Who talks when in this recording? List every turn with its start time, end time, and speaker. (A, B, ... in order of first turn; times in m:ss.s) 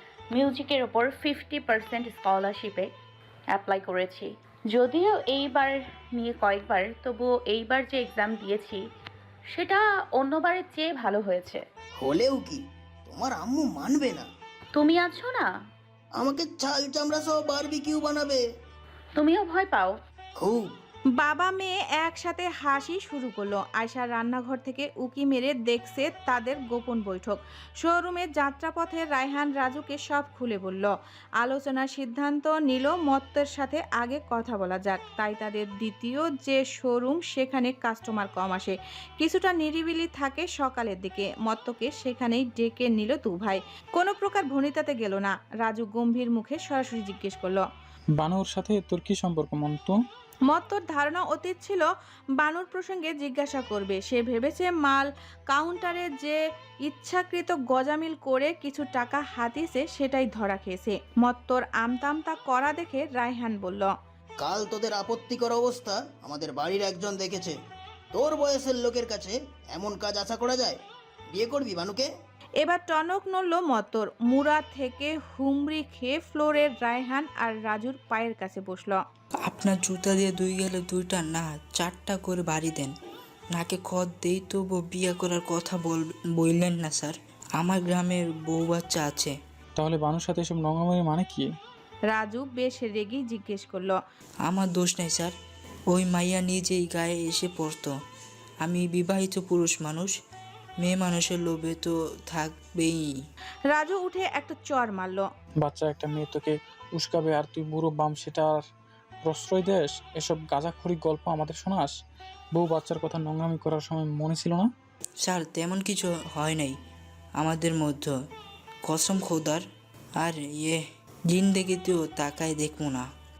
0:00.3-0:02.9 A
0:03.5-0:08.8 A
0:09.5-0:11.6 A
0:12.0-0:14.2 B
0:14.7-0:15.4 A
0:16.1-0:18.4 B
0:19.2-0:19.9 A
0:20.4-0:20.7 B
0:21.2-0:47.6 C
0:48.2-0:49.9 D
0:50.5-0:51.9 C
0:52.4-1:03.9 C
1:04.4-1:07.6 B
1:08.1-1:10.8 B
1:11.3-1:12.1 B
1:12.6-1:19.0 C
1:19.4-1:22.9 E
1:23.5-1:29.4 E
1:29.8-1:31.4 D
1:32.1-1:34.0 C
1:34.4-1:35.3 E
1:35.9-1:38.0 E
1:38.6-1:40.2 E
1:40.8-1:43.2 E
1:43.7-1:45.3 C
1:45.6-1:48.6 D
1:49.2-1:51.9 D
1:52.6-1:54.6 D
1:55.2-1:56.8 E
1:57.3-1:58.2 E
1:58.8-1:59.6 E
2:00.2-2:03.0 E